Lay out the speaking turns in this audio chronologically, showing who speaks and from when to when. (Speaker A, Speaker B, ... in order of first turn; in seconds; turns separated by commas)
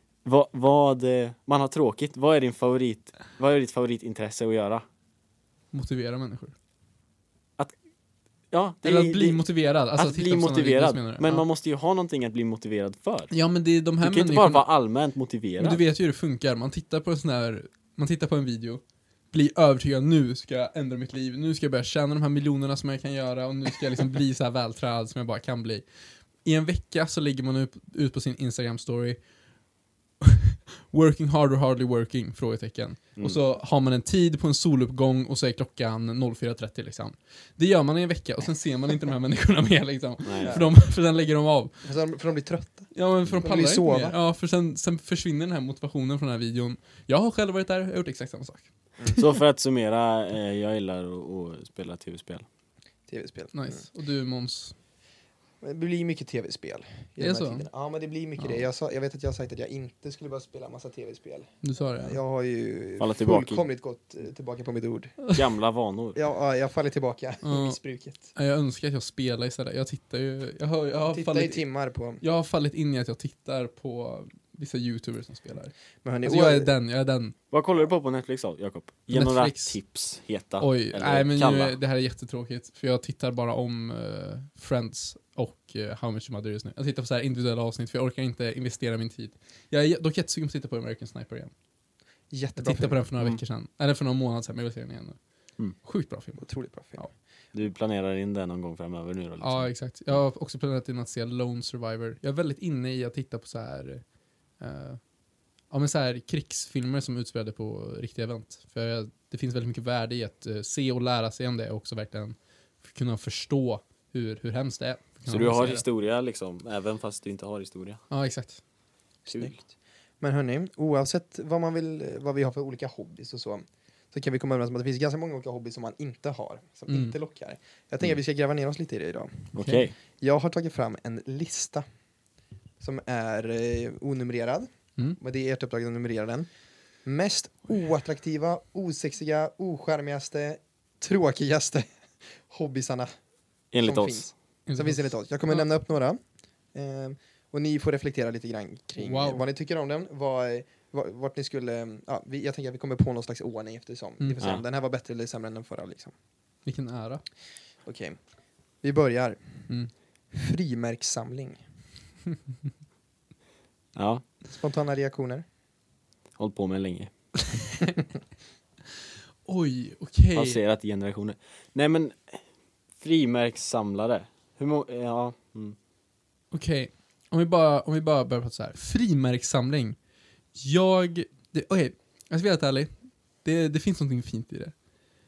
Speaker A: 0.2-4.8, Speaker B: 5.7-6.5, Speaker A: 8.5-9.4, Speaker B: 8.8-11.4, Speaker A: 9.9-13.3, Speaker B: 13.3-14.6, Speaker A: 14.0-15.8, Speaker B: 15.6-25.8, Speaker B: 26.4-29.2, Speaker B: 30.2-41.8, Speaker A: 40.2-40.6, Speaker C: 40.4-40.7, Speaker C: 41.8-44.1, Speaker B: 42.9-49.2, Speaker C: 49.0-49.2, Speaker A: 49.1-52.5, Speaker C: 53.1-53.8, Speaker B: 53.5-54.7, Speaker C: 55.6-65.3, Speaker B: 57.2-57.7, Speaker B: 58.4-58.6, Speaker B: 61.6-62.2, Speaker A: 63.0-63.6, Speaker A: 65.3-66.2, Speaker C: 66.1-68.3, Speaker B: 67.4-67.8, Speaker B: 68.3-71.7, Speaker C: 71.1-72.2, Speaker B: 72.2-77.3, Speaker C: 76.0-76.7, Speaker A: 77.5-81.8, Speaker B: 79.1-79.8, Speaker B: 80.6-91.5, Speaker C: 92.3-93.0, Speaker B: 92.6-95.2, Speaker B: 95.7-97.1, Speaker C: 96.4-97.0, Speaker A: 97.5-99.7, Speaker B: 99.4-104.0, Speaker B: 104.6-105.0, Speaker B: 105.7-115.8, Speaker A: 115.3-118.0, Speaker B: 118.1-118.6, Speaker A: 119.2-119.5, Speaker C: 119.3-119.6, Speaker C: 120.2-129.6, Speaker B: 126.9-127.2, Speaker A: 129.5-129.9, Speaker B: 129.6-129.9, Speaker C: 130.2-131.8, Speaker C: 132.8-136.5, Speaker C: 137.0-141.9, Speaker C: 142.4-143.2, Speaker A: 143.7-144.3, Speaker C: 143.8-146.2, Speaker B: 144.7-145.7, Speaker C: 146.7-156.1, Speaker B: 149.0-149.4, Speaker B: 156.7-157.2, Speaker C: 157.8-158.2, Speaker C: 158.8-159.7, Speaker C: 160.3-161.6, Speaker A: 163.9-164.2, Speaker C: 164.4-165.4, Speaker A: 166.4-167.1, Speaker B: 169.4-170.6, Speaker A: 170.3-172.4, Speaker A: 172.9-175.8, Speaker B: 176.5-180.0, Speaker B: 180.5-182.9, Speaker B: 183.4-184.7